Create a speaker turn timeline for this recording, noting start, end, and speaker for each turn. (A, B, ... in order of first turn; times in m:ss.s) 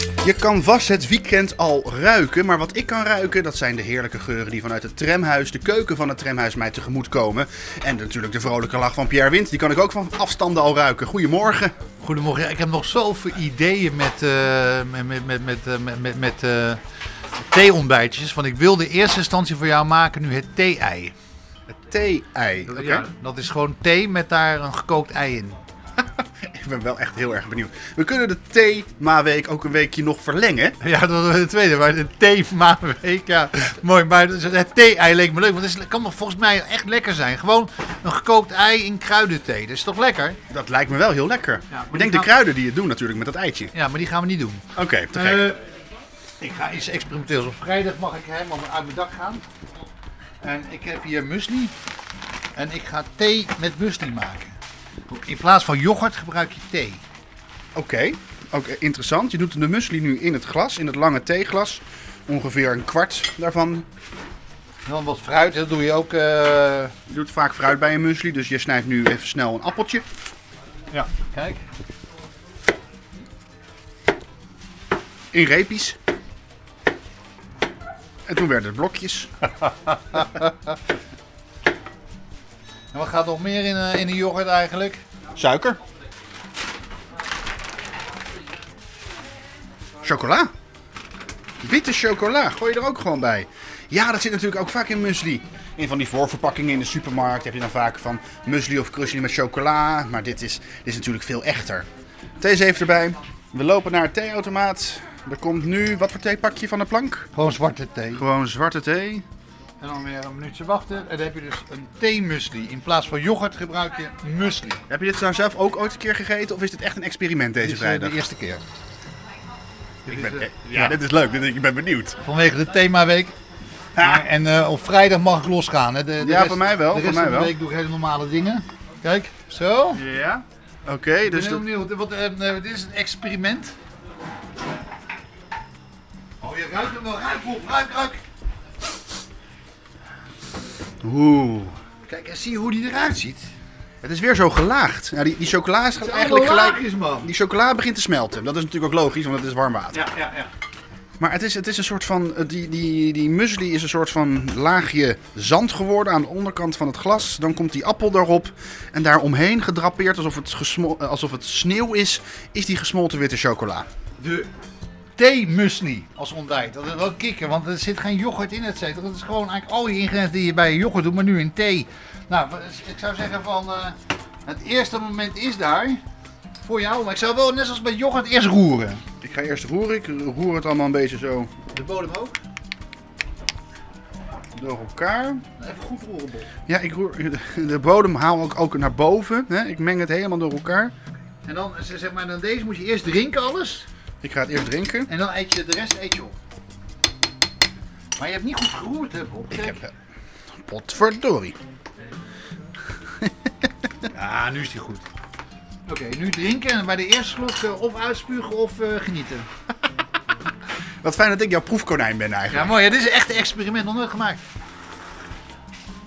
0:00.2-0:11.7 A
0:12.0-0:16.8 B
0:17.5-0:21.1 B
0:21.7-0:23.1 A
0:22.7-0:25.6 B
0:26.0-0:30.8 A
0:30.8-0:40.4 B
0:40.5-0:43.7 A
0:41.7-0:42.3 B
0:43.7-0:45.6 B
0:44.8-0:45.5 A
0:46.4-0:49.4 B
0:50.4-0:51.7 B
0:52.6-0:54.6 B
0:55.1-0:57.0 B
0:57.8-1:03.9 A
1:04.9-1:06.9 B
1:07.1-1:10.0 A
1:10.9-1:11.6 B
1:15.3-1:16.0 A
1:18.3-1:19.3 A
1:22.9-1:25.0 B
1:25.4-1:25.8 A
1:30.0-1:30.5 A
1:31.6-1:41.9 A
1:42.4-1:47.3 A
1:47.3-1:48.2 B
1:48.1-1:49.2 A
1:49.8-1:54.8 B
1:54.9-1:58.2 A
1:57.6-1:58.6 B
2:00.1-2:01.0 B
2:00.1-2:02.2 A
2:02.2-2:03.4 B
2:04.0-2:04.2 A
2:04.0-2:10.0 B
2:06.2-2:07.5 A
2:09.9-2:11.7 A
2:11.2-2:13.8 B
2:16.4-2:18.2 B
2:21.0-2:21.8 A
2:22.1-2:23.5 B
2:24.0-2:30.0 A
2:26.0-2:27.3 B
2:29.9-2:30.5 B
2:31.2-2:43.9 A
2:44.2-2:44.5 B
2:45.2-2:56.0 B
2:56.6-2:59.0 B
2:59.2-3:01.5 A
3:01.7-3:02.4 B
3:04.6-3:05.4 A
3:05.6-3:06.5 B
3:06.7-3:10.9 A
3:11.4-3:13.9 B
3:14.2-3:15.1 A
3:15.1-3:16.4 B
3:18.2-3:19.8 B
3:19.5-3:19.9 A
3:20.7-3:21.6 A
3:24.1-3:25.0 B
3:25.9-3:29.5 B
3:31.0-3:32.8 A
3:32.5-3:34.4 B